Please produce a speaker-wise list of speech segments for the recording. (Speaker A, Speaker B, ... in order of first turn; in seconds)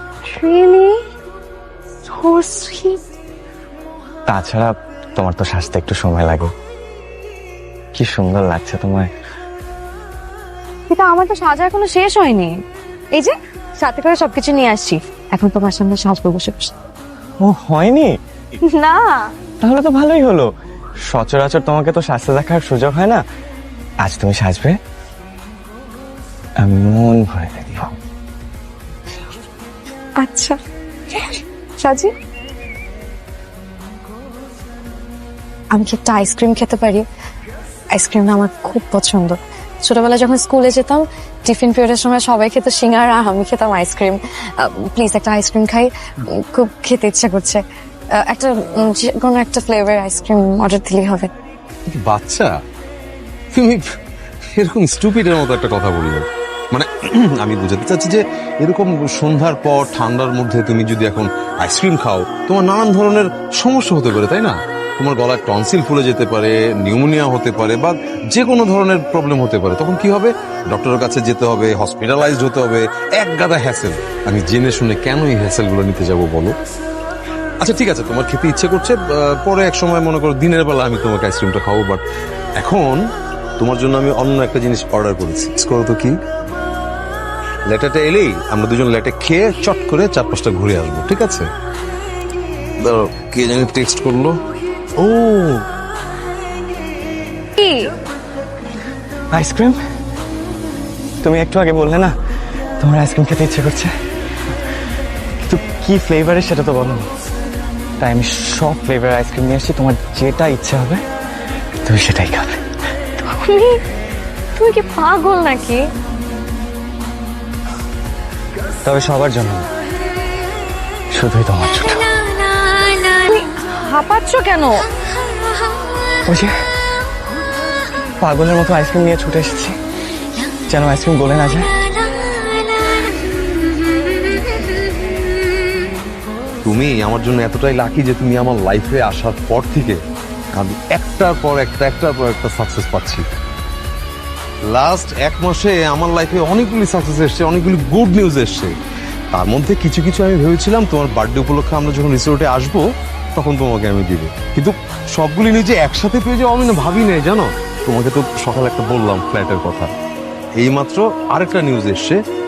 Speaker A: 0.3-1.0, 2.1-3.0, 10.9-12.5, 13.1-16.7, 18.7-19.3, 30.2-30.6, 31.8-32.1, 35.7-37.1, 37.9-47.6, 48.1-51.3, 97.6-97.9, 113.2-113.8, 114.6-115.8, 123.2-124.9
Speaker B: 4.3-6.5, 8.0-9.1, 17.4-18.2, 19.6-20.5, 21.1-23.2, 24.0-24.8, 26.6-27.9, 99.3-99.8, 101.2-102.1, 102.8-103.9, 105.4-107.1, 108.0-111.0, 111.8-112.6, 118.8-119.7, 121.1-122.2, 126.3-126.5, 128.2-129.8, 130.7-131.8
Speaker C: 51.9-52.5, 53.5-53.8, 54.5-76.5, 77.6-82.0, 82.6-83.0, 83.6-86.2, 87.7-91.5, 92.8-94.4, 95.0-95.6, 136.7-140.0, 140.6-143.2, 144.7-148.7, 149.3-159.9, 160.6-162.2